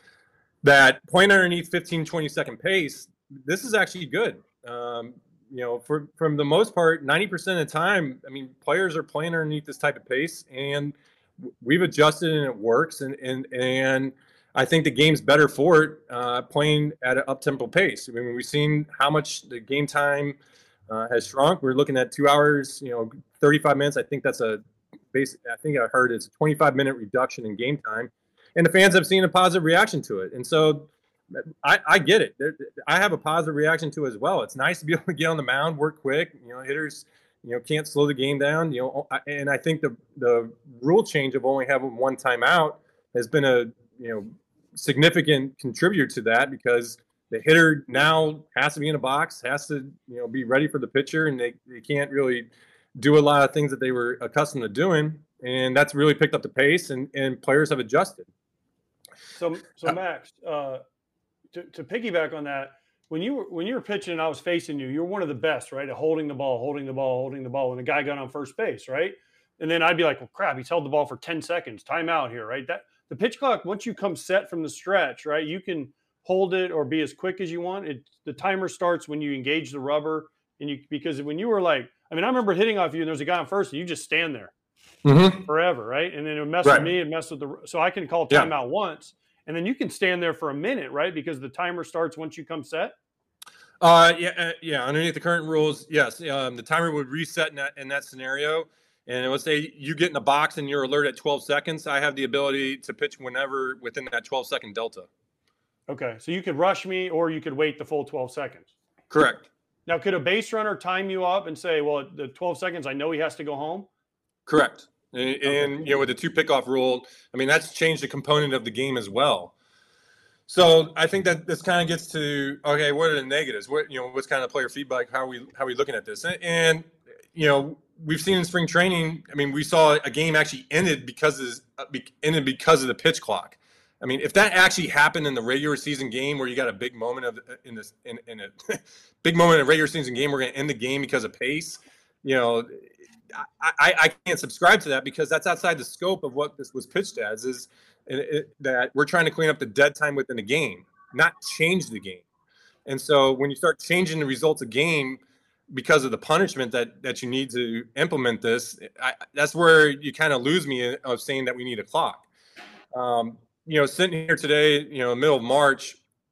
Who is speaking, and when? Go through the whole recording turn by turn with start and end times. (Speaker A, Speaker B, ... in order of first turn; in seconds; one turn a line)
Speaker A: 0.6-10.9
Speaker A: 11.6-20.4
Speaker A: 20.9-30.9
Speaker A: 31.6-58.3
Speaker B: 59.3-60.8
Speaker B: 61.5-84.5
Speaker A: 85.0-85.4
Speaker B: 85.4-92.9
Speaker A: 86.6-86.9
Speaker A: 93.8-105.1
Speaker B: 105.9-108.7
Speaker A: 109.1-109.5
Speaker B: 109.9-113.9
Speaker A: 114.5-119.5
Speaker B: 115.5-116.0
Speaker A: 120.5-152.2
Speaker A: 152.8-162.2
Speaker A: 162.9-166.0